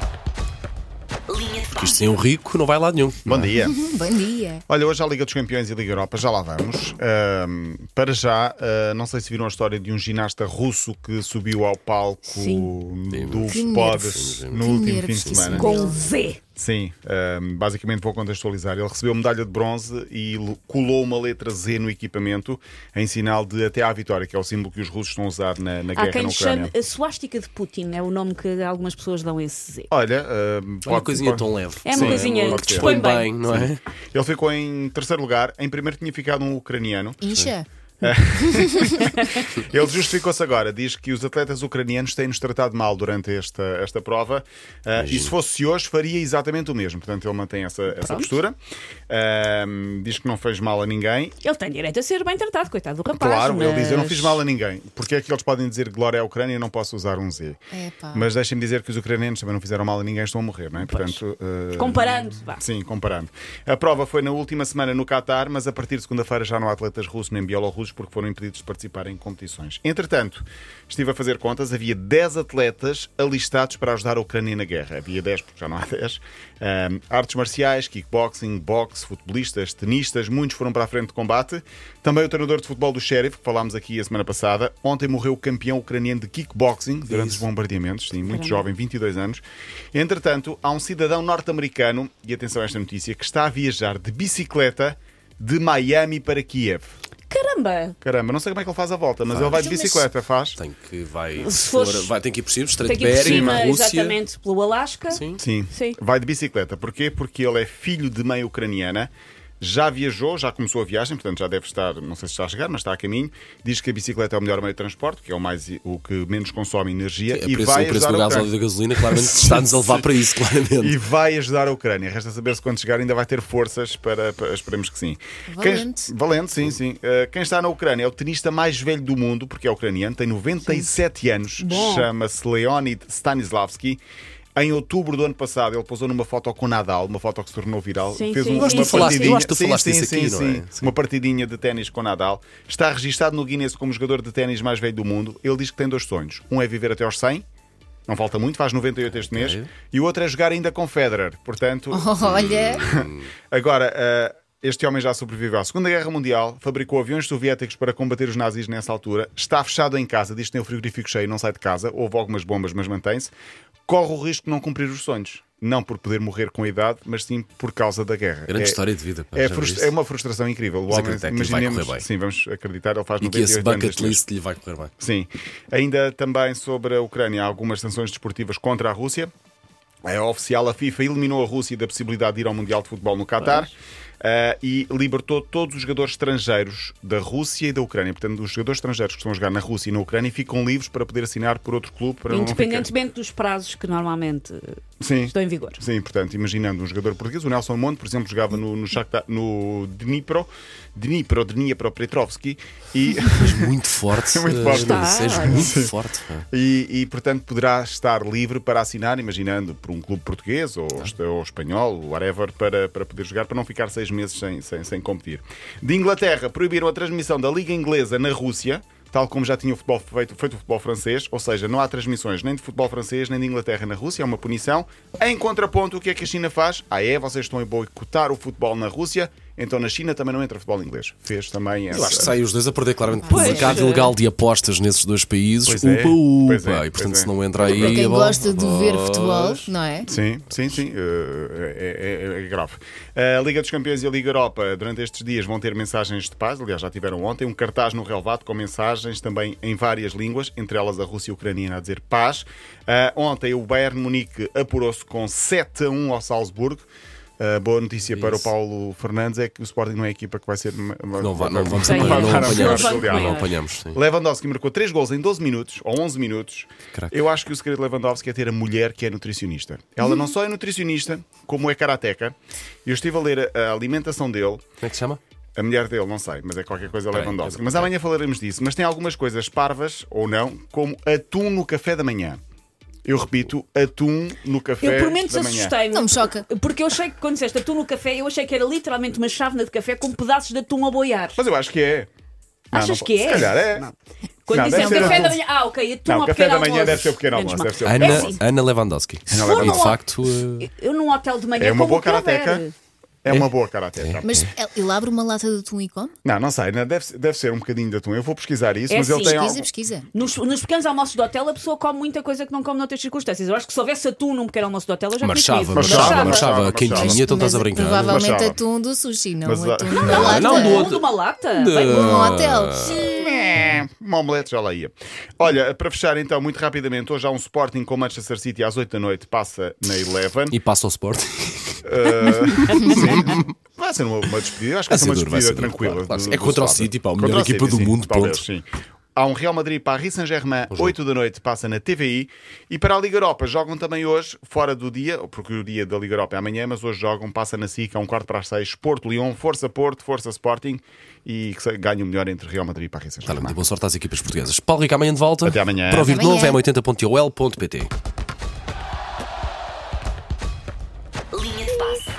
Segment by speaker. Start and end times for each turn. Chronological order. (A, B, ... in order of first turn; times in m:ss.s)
0:01.7-0:03.5 A
0:03.2-0:03.8 B
0:03.6-0:04.6 C
0:04.7-0:15.7 B
0:12.2-0:12.7 D
0:13.1-0:15.6 A
0:13.5-0:14.1 C
0:14.6-0:16.0 C
0:15.5-0:16.4 D
0:16.6-0:26.7 B
0:26.0-0:29.9 D
0:29.9-0:37.3 B
0:30.8-0:33.8 A
0:31.8-0:33.3 D
0:37.2-0:37.7 C
0:38.0-0:48.6 B
0:38.2-0:39.0 C
0:45.0-0:45.3 A
0:48.0-0:48.3 D
0:49.1-0:51.4 B
0:51.4-0:54.4 D
0:53.1-0:57.6 B
0:57.7-0:58.3 C
0:58.1-1:36.9 B
1:00.9-1:01.2 D
1:01.8-1:02.6 D
1:27.1-1:27.4 A
1:28.2-1:28.7 D
1:37.3-1:38.0 D
1:38.0-1:40.6 B
1:39.3-1:39.7 A
1:39.6-1:40.1 C
1:40.6-1:44.2 A
1:41.4-1:42.1 D
1:42.8-1:46.0 D
1:43.2-1:43.6 B
1:45.1-1:45.4 A
1:45.3-1:58.5 B
1:57.3-2:01.0 A
1:59.0-2:00.1 B
2:00.8-2:14.0 B
2:05.5-2:06.1 C
2:11.6-2:12.1 D
2:14.6-2:27.4 B
2:18.1-2:19.4 D
2:18.6-2:20.9 A
2:28.1-2:43.3 B
2:29.1-2:29.7 A
2:31.9-2:33.0 C
2:32.3-2:33.2 A
2:43.9-2:48.8 B
2:48.5-2:49.9 A
2:49.3-2:54.2 B
2:50.9-2:52.1 A
2:53.2-2:54.9 A
2:55.0-2:59.3 B
3:00.0-3:12.9 B
3:03.4-3:03.7 D
3:12.3-3:15.8 D
3:15.0-3:25.9 B
3:23.4-3:26.4 A
3:24.7-3:25.7 D
3:26.5-3:52.3 B
3:51.9-3:59.6 A
3:53.2-3:53.8 C
3:53.3-3:54.2 D
3:55.6-3:58.2 B
3:57.6-4:00.1 C
4:00.0-4:16.9 B
4:17.4-4:34.6 B
4:18.1-4:18.5 A
4:21.2-4:24.0 A
4:21.8-4:23.5 D
4:34.8-4:35.2 A
4:35.6-4:42.4 B
4:37.1-4:37.9 A
4:43.0-4:45.8 B
4:44.8-4:51.4 D
4:45.9-4:46.5 C
4:51.4-4:52.1 B
4:52.7-4:53.6 D
4:52.7-4:53.9 B
4:54.5-4:58.4 D
4:54.5-4:55.4 B
4:54.7-4:55.4 C
4:56.1-4:58.4 B
4:57.8-5:00.7 A
4:59.3-4:59.9 B
4:59.3-5:02.7 D
5:01.6-5:02.6 B
5:03.2-5:04.4 B
5:03.3-5:04.5 A
5:04.2-5:06.1 C
5:06.2-5:09.7 B
5:08.9-5:09.5 D
5:09.2-5:10.1 C
5:10.1-5:16.6 D
5:15.2-5:18.3 A
5:15.7-5:17.2 B
5:16.9-5:20.9 C
5:18.1-5:18.6 B
5:19.4-5:20.5 B
5:20.0-5:22.5 D
5:20.2-5:23.0 A
5:21.8-5:23.0 C
5:22.9-5:30.6 B
5:30.5-5:31.8 A
5:31.8-5:53.6 B
5:32.7-5:33.4 A
5:34.9-5:38.4 A
5:40.7-5:41.0 A
5:53.3-5:57.9 A
5:55.4-5:56.2 B
5:56.0-5:56.6 C